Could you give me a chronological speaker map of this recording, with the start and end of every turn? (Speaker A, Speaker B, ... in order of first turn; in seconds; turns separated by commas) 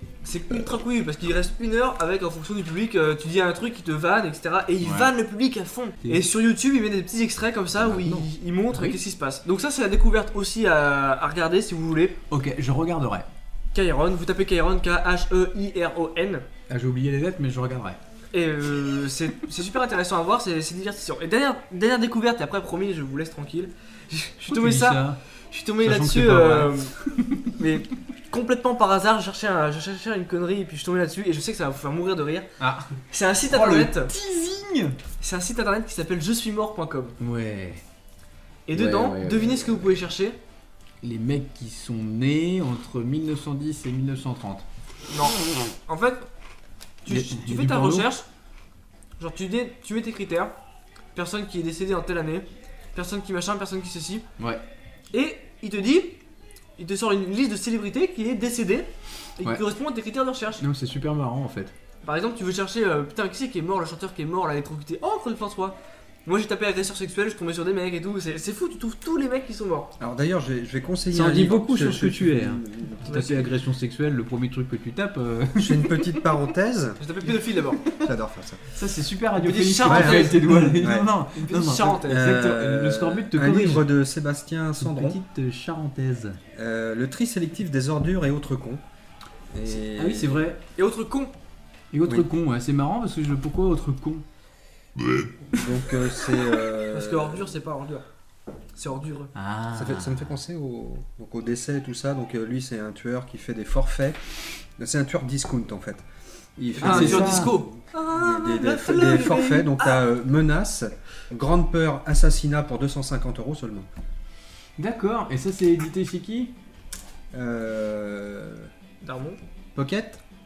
Speaker A: 0.2-12.2, Speaker B: 4.8-5.1, Speaker C: 7.8-8.3, Speaker B: 8.7-9.0, Speaker B: 12.3-13.3, Speaker A: 13.7-16.4, Speaker B: 16.7-18.0, Speaker A: 18.3-26.9, Speaker B: 24.4-25.2, Speaker B: 25.8-27.5, Speaker A: 27.5-32.5, Speaker B: 32.6-33.0, Speaker A: 33.1-34.1, Speaker B: 33.5-35.0, Speaker A: 35.2-37.2, Speaker B: 37.2-37.8, Speaker A: 38.7-40.4, Speaker B: 38.7-39.8, Speaker B: 41.0-44.6, Speaker A: 45.1-46.3, Speaker A: 47.0-48.2, Speaker B: 47.1-48.1, Speaker A: 49.2-50.5, Speaker A: 51.1-54.3, Speaker A: 55.1-56.2, Speaker A: 56.8-60.6, Speaker B: 60.6-61.8, Speaker A: 62.0-69.9, Speaker C: 70.0-73.0, Speaker B: 71.1-76.1, Speaker A: 73.1-73.5, Speaker C: 75.6-77.0, Speaker A: 77.0-77.8, Speaker C: 78.0-78.6, Speaker B: 78.7-83.9, Speaker A: 79.4-80.8, Speaker C: 79.8-81.1, Speaker A: 81.3-82.3, Speaker C: 82.0-85.2, Speaker B: 84.8-86.4, Speaker C: 86.5-88.8, Speaker C: 89.5-90.4, Speaker B: 90.0-90.6, Speaker A: 90.8-91.3, Speaker B: 91.9-94.2, Speaker C: 95.5-97.5, Speaker A: 96.8-98.0, Speaker A: 98.8-99.3, Speaker B: 99.3-100.4, Speaker C: 99.7-104.2, Speaker C: 104.8-106.0, Speaker C: 106.6-113.9, Speaker A: 106.8-110.0, Speaker B: 106.8-107.5, Speaker B: 114.8-116.5, Speaker C: 117.3-118.7, Speaker A: 119.0-119.4, Speaker C: 119.8-120.2